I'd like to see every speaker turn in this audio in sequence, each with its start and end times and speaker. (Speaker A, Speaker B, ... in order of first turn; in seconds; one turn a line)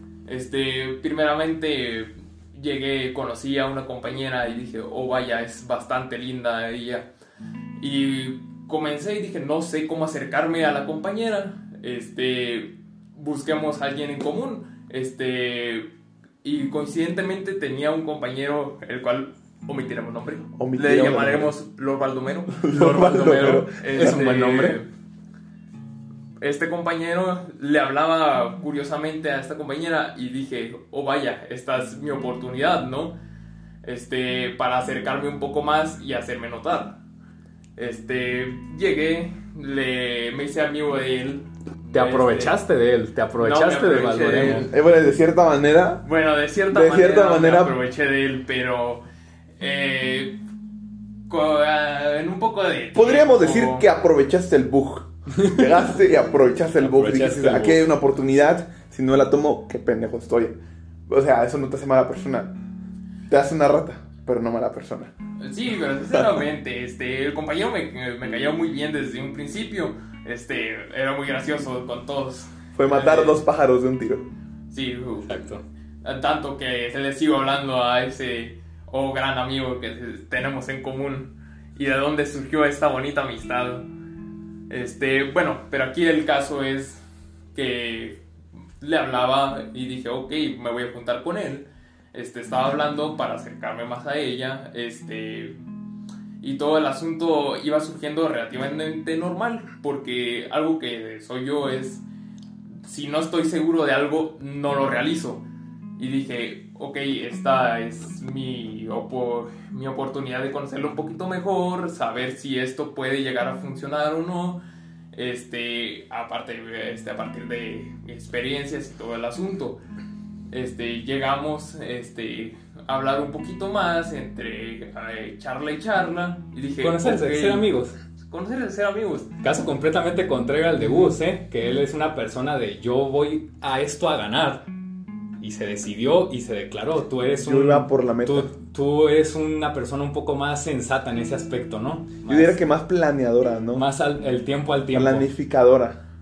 Speaker A: 0.3-7.1
Speaker A: 7.8-15.9
Speaker A: 16.4-24.9
Speaker B: 20.6-21.5
Speaker B: 22.5-24.2
Speaker C: 22.7-24.8
Speaker A: 26.4-33.1
Speaker A: 33.8-37.0
Speaker A: 37.8-42.6
Speaker C: 41.9-44.7
Speaker A: 43.4-44.7
Speaker B: 44.4-46.0
Speaker A: 46.0-49.0
Speaker B: 46.7-47.8
Speaker A: 49.6-50.4
Speaker A: 51.3-53.9
Speaker B: 52.9-60.6
Speaker C: 55.4-55.8
Speaker C: 56.8-57.9
Speaker B: 61.1-62.5
Speaker B: 63.3-65.1
Speaker A: 65.4-73.4
Speaker B: 72.8-74.3
Speaker A: 74.7-83.8
Speaker C: 75.2-75.6
Speaker A: 84.7-87.0
Speaker A: 87.5-88.2
Speaker A: 88.8-95.6
Speaker A: 96.4-102.0
Speaker A: 102.8-105.4
Speaker A: 106.0-114.6
Speaker A: 115.1-119.8
Speaker A: 120.5-127.7
Speaker C: 126.8-127.9
Speaker A: 128.2-129.3
Speaker C: 129.4-134.7
Speaker B: 130.8-131.1
Speaker C: 135.4-142.6
Speaker B: 137.4-138.5
Speaker B: 142.3-143.9
Speaker C: 143.7-145.3
Speaker B: 144.9-146.0